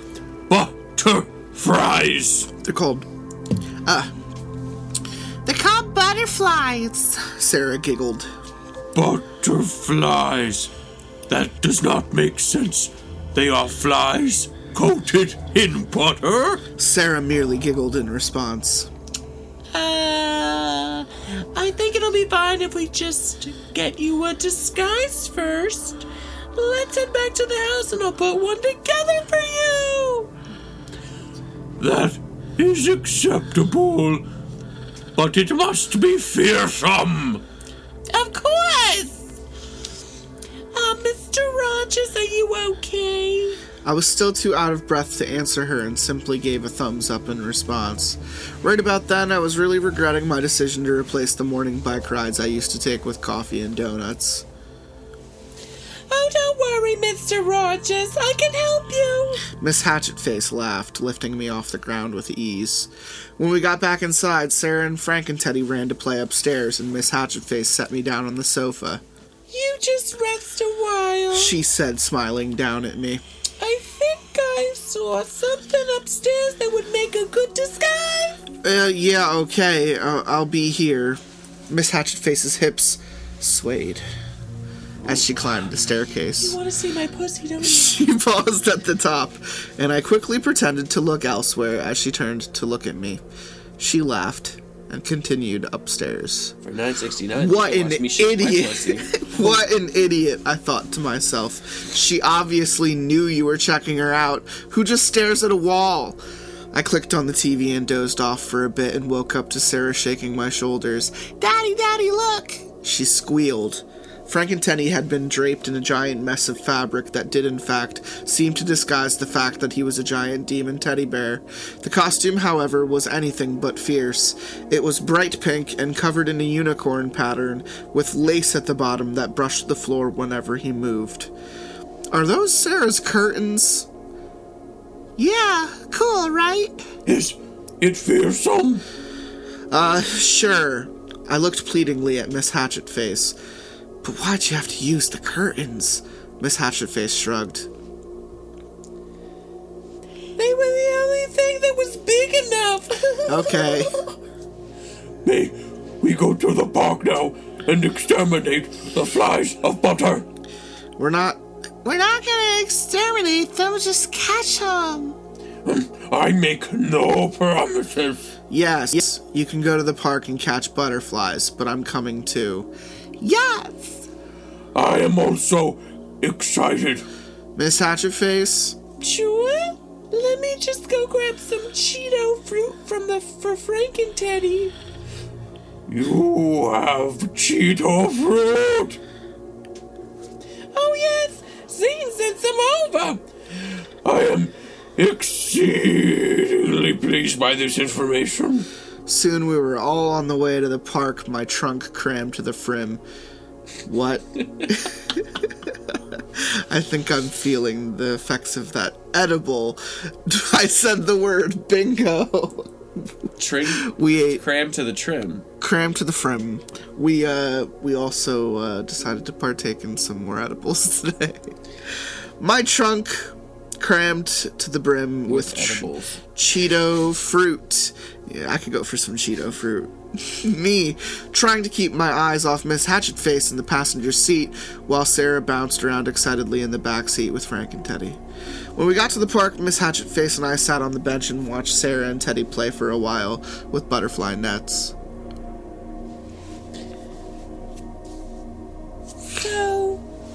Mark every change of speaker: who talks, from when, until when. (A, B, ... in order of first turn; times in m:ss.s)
0:00.5-0:02.5 A
0:02.6-0:03.1 B
0:03.8-0:04.1 B
0:05.4-0:08.3 B
0:08.9-0:10.7 A
0:11.3-0:16.6 A
0:16.8-0:18.9 B
0:19.7-0:30.3 C
0:31.8-0:34.2 A
0:35.1-0:37.4 A
0:38.1-0:39.3 C
0:40.7-0:43.6 C
0:43.8-0:54.4 B
0:56.1-0:59.4 C
0:59.5-1:09.0 B
1:09.5-1:11.6 C
1:11.3-1:13.2 B
1:13.6-1:18.4 C
1:18.6-1:24.0 B
1:25.0-1:26.6 B
1:26.4-1:28.0 C
1:27.6-1:33.2 B
1:33.8-1:36.6 B
1:36.6-1:39.5 A
1:37.3-1:46.2 B
1:46.7-2:11.3 B
2:12.1-2:13.9 B
2:15.2-2:16.8 B
2:17.0-2:18.8 A
2:19.7-2:23.4 B
2:24.0-2:27.7 B
2:30.4-2:34.1 C
2:33.3-2:33.9 B
2:35.2-2:40.2 A
2:41.0-2:45.2 B
2:45.6-2:48.2 A
2:48.5-2:54.0 B
2:54.7-2:57.0 A
2:57.5-2:58.8 B
2:59.0-3:04.7 C
3:05.9-3:09.0 A
3:10.7-3:13.2 C
3:14.0-3:18.7 A
3:19.0-3:23.0 B
3:23.8-3:33.1 B
3:33.4-3:35.4 A
3:33.7-3:34.4 B
3:35.6-3:58.2 B
3:45.3-3:46.2 A
3:58.8-4:04.9 B
4:09.3-4:10.0 C